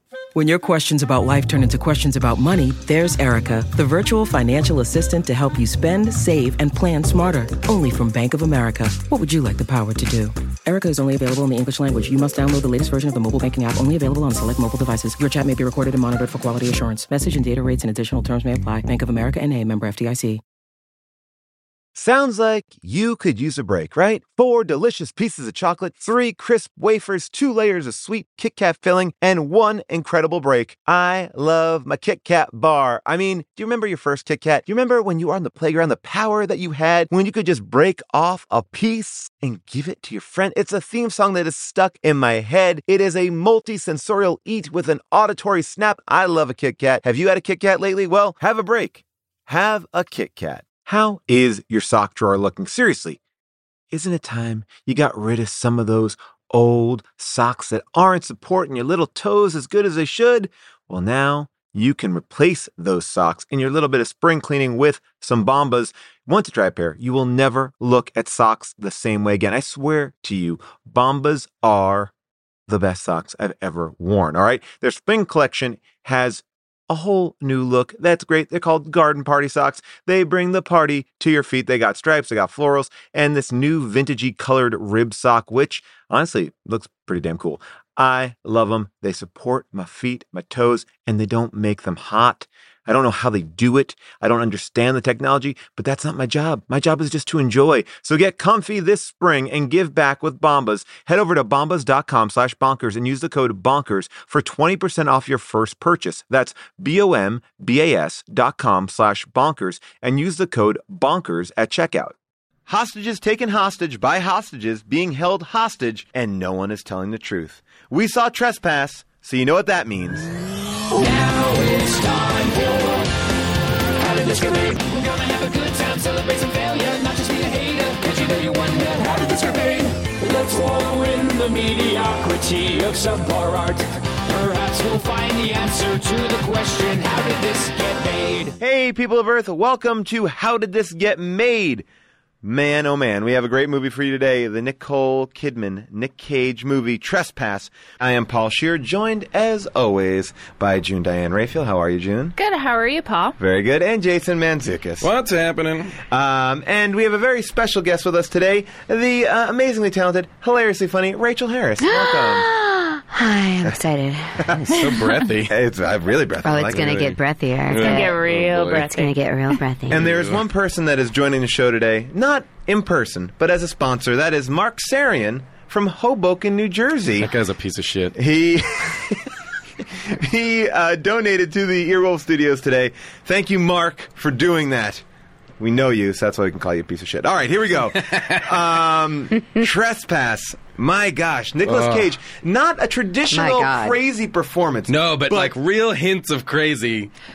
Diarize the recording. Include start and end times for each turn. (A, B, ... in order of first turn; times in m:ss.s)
0:00.3-0:20.4 A
0:22.0-0:53.2 B
0:53.9-1:12.1 B
1:12.7-1:52.2 B
1:52.7-2:00.3 B
2:00.9-2:03.1 C
2:03.9-2:18.6 C
2:18.6-2:21.9 B
2:22.4-2:32.4 B
2:32.4-2:33.4 D
2:33.4-2:35.1 B
2:35.0-2:36.0 E
2:36.1-2:42.5 B
2:41.8-2:44.8 F
2:44.4-2:44.7 B
2:44.6-2:45.5 E
2:45.5-2:47.2 B
2:46.4-2:48.2 F
2:46.7-2:47.2 E
2:47.7-2:48.9 E
2:47.8-2:49.1 D
2:48.8-2:50.1 F
2:49.9-2:57.3 B
2:49.9-2:50.4 E
2:57.1-2:58.2 E
2:58.2-2:59.4 B
2:59.9-3:05.0 B
3:05.6-3:15.6 B
3:08.0-3:08.5 E
3:11.6-3:12.1 E
3:13.3-3:14.0 F
3:14.9-3:17.1 E